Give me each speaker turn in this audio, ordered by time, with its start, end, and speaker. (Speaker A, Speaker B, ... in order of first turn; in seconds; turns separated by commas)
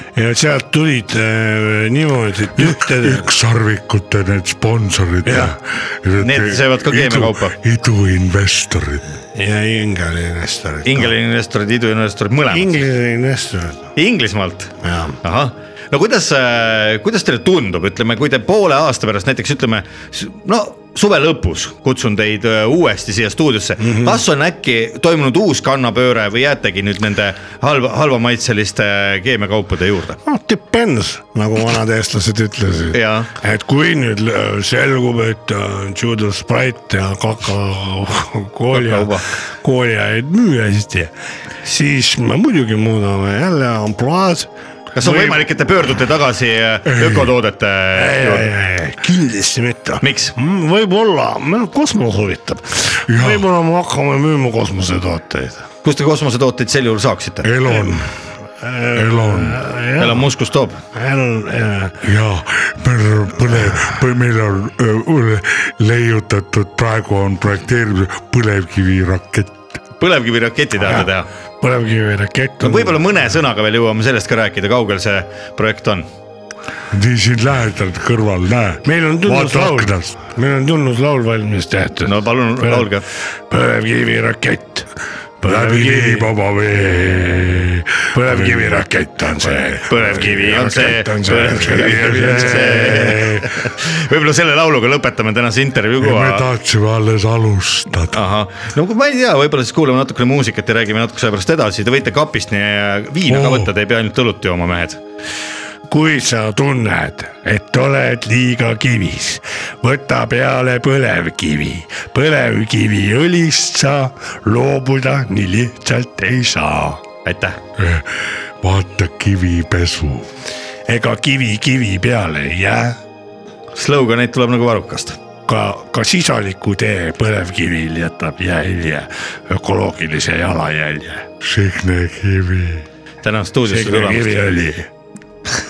Speaker A: 0.1-3.3, Speaker B: 2.6-9.0, Speaker A: 5.2-5.6, Speaker C: 6.2-7.6, Speaker A: 9.3-11.1, Speaker C: 10.9-12.8, Speaker A: 12.5-13.9, Speaker C: 14.0-30.2, Speaker A: 14.8-15.2, Speaker A: 23.8-24.2, Speaker A: 30.2-41.1, Speaker C: 32.9-33.3, Speaker C: 38.7-39.3, Speaker A: 41.6-45.5, Speaker C: 44.9-48.5, Speaker B: 46.9-47.3, Speaker A: 47.9-55.7, Speaker C: 50.0-50.4, Speaker B: 53.1-53.5, Speaker C: 55.8-57.5, Speaker B: 57.4-58.1, Speaker A: 57.6-58.0, Speaker A: 58.6-60.3, Speaker B: 59.0-59.6, Speaker C: 60.0-60.8, Speaker A: 60.9-62.0, Speaker B: 62.0-69.6, Speaker A: 63.5-63.9, Speaker C: 70.0-71.3, Speaker A: 70.8-71.1, Speaker A: 71.6-73.0, Speaker C: 72.6-76.1, Speaker B: 76.9-80.2, Speaker A: 78.8-82.9, Speaker C: 82.0-83.1, Speaker A: 83.5-84.9, Speaker A: 85.4-86.4, Speaker B: 85.4-89.8, Speaker A: 88.1-93.5, Speaker C: 89.9-96.5, Speaker B: 91.6-93.5, Speaker B: 96.0-98.2, Speaker C: 98.1-105.0, Speaker B: 103.3-103.7, Speaker A: 105.9-117.0, Speaker C: 117.2-117.6, Speaker B: 117.8-120.3, Speaker A: 120.9-123.0, Speaker C: 123.8-125.2, Speaker A: 125.5-131.3, Speaker B: 131.4-132.8, Speaker C: 133.2-134.7, Speaker A: 133.7-134.9